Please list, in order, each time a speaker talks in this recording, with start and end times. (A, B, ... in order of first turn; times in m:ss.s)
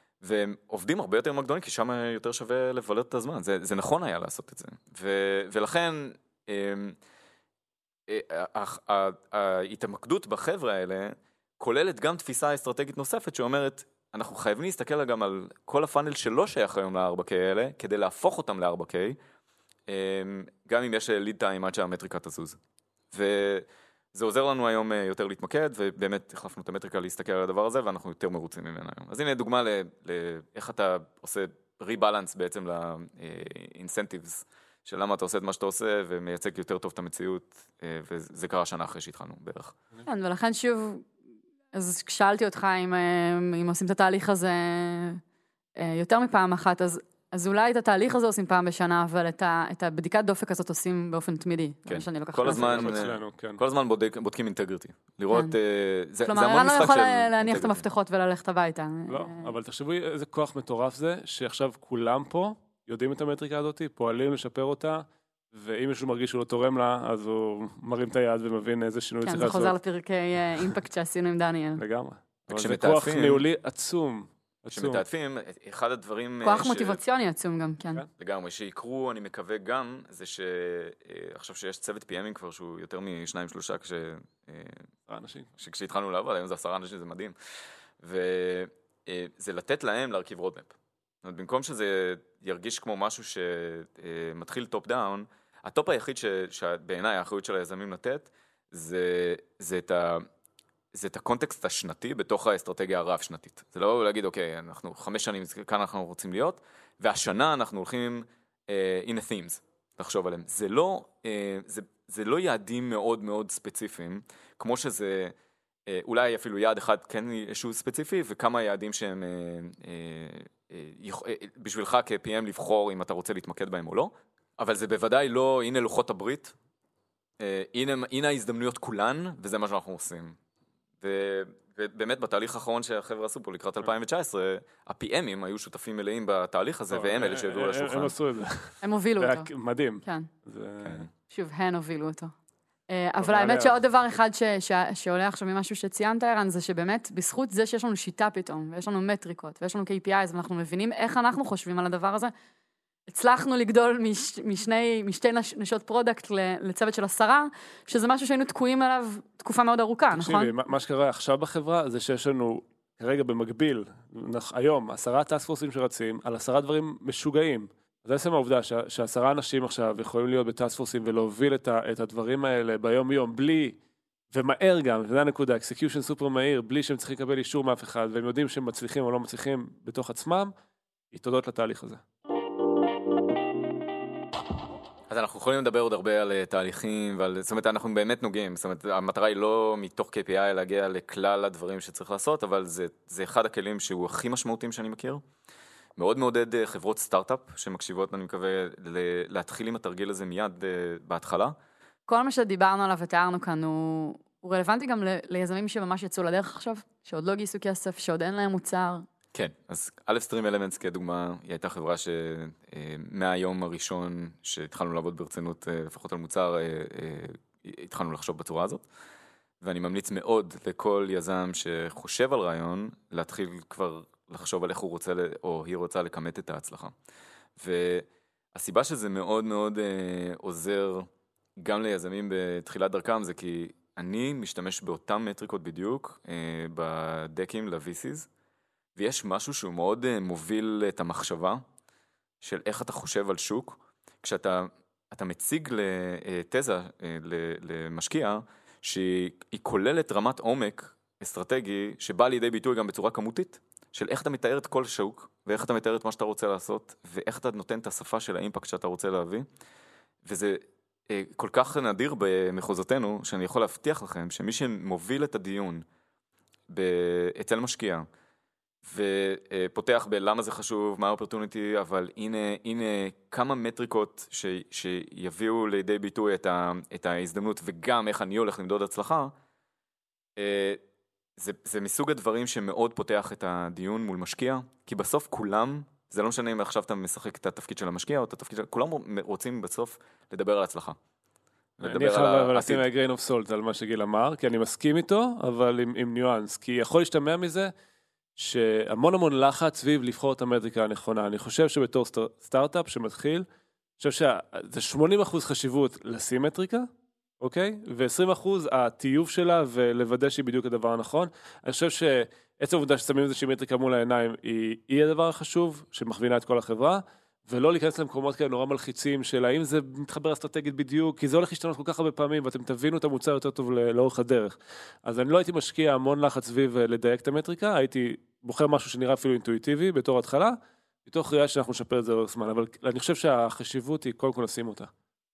0:00.2-0:07.0 A
0:08.1-0:19.2 A
0:19.9-0:22.6 A
0:23.1-0:39.8 A
0:40.0-0:41.1 B
0:41.7-0:45.2 B
0:45.8-0:52.9 B
0:51.9-0:57.8 A
0:52.4-0:53.6 C
0:56.2-0:59.5 B
0:59.1-1:09.8 C
1:09.2-1:11.8 B
1:11.8-1:15.0 C
1:12.5-1:13.4 A
1:14.7-1:17.0 A
1:16.4-1:18.0 B
1:18.2-1:24.9 A
1:25.1-1:25.5 C
1:25.6-1:27.4 A
1:28.0-1:40.2 A
1:40.9-1:55.4 A
1:55.9-2:06.6 A
2:07.4-2:10.4 A
2:11.0-2:18.1 A
2:16.9-2:21.1 C
2:18.8-2:19.5 B
2:21.3-2:22.3 B
2:22.9-2:32.3 B
2:23.2-2:23.8 C
2:33.1-2:40.5 B
2:40.1-2:53.8 C
2:54.3-3:00.5 C
3:01.1-3:02.0 C
3:05.1-3:15.2 A
3:16.0-3:21.6 A
3:22.1-3:29.0 B
3:29.3-3:38.8 A
3:39.6-3:46.9 A
3:47.6-3:58.3 A
3:59.0-4:01.6 A
4:02.4-4:19.5 A
4:20.2-4:25.8 A
4:26.7-4:28.1 A
4:28.8-4:39.3 A
4:40.4-4:40.8 A
4:41.4-4:51.0 A
4:51.8-4:52.8 A
4:51.8-4:57.7 C
4:58.4-5:03.5 C
5:04.0-5:06.9 C
5:07.4-5:34.9 C